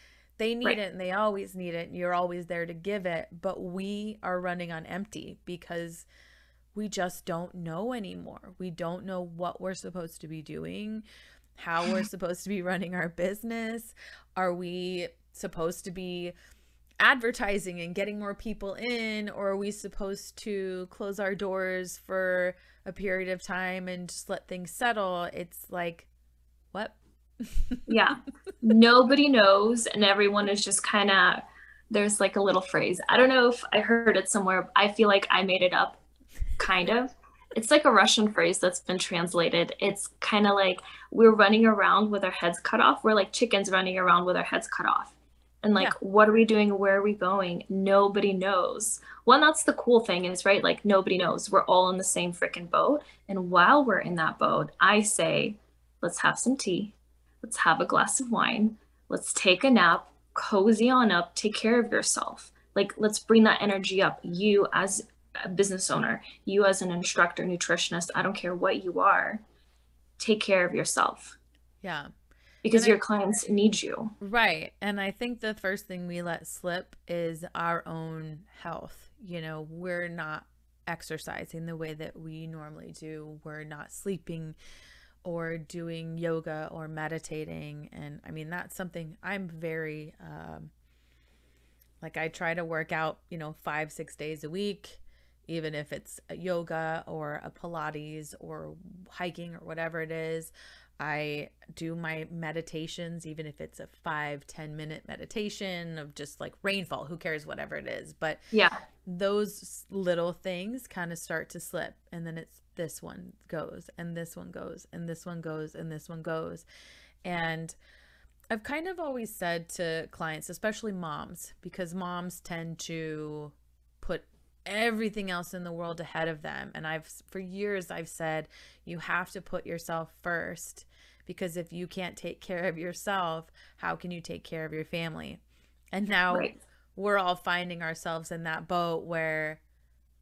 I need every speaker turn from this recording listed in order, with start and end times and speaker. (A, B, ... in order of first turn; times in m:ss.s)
0:00.4-0:06.0 A
0:06.7-0:11.0 A
0:11.6-0:16.3 A
0:17.0-0:26.1 A
0:26.7-0:27.9 A
0:27.9-0:36.0 B
0:36.6-1:09.4 B
1:10.2-1:11.4 B
1:11.8-1:12.1 A
1:12.6-1:14.2 B
1:12.7-1:13.0 A
1:14.2-1:24.6 A
1:25.2-1:30.7 A
1:32.0-1:48.4 A
1:48.5-1:48.8 B
1:49.0-1:56.6 A
1:57.2-1:57.7 A
1:58.5-2:15.4 A
2:15.9-2:19.6 A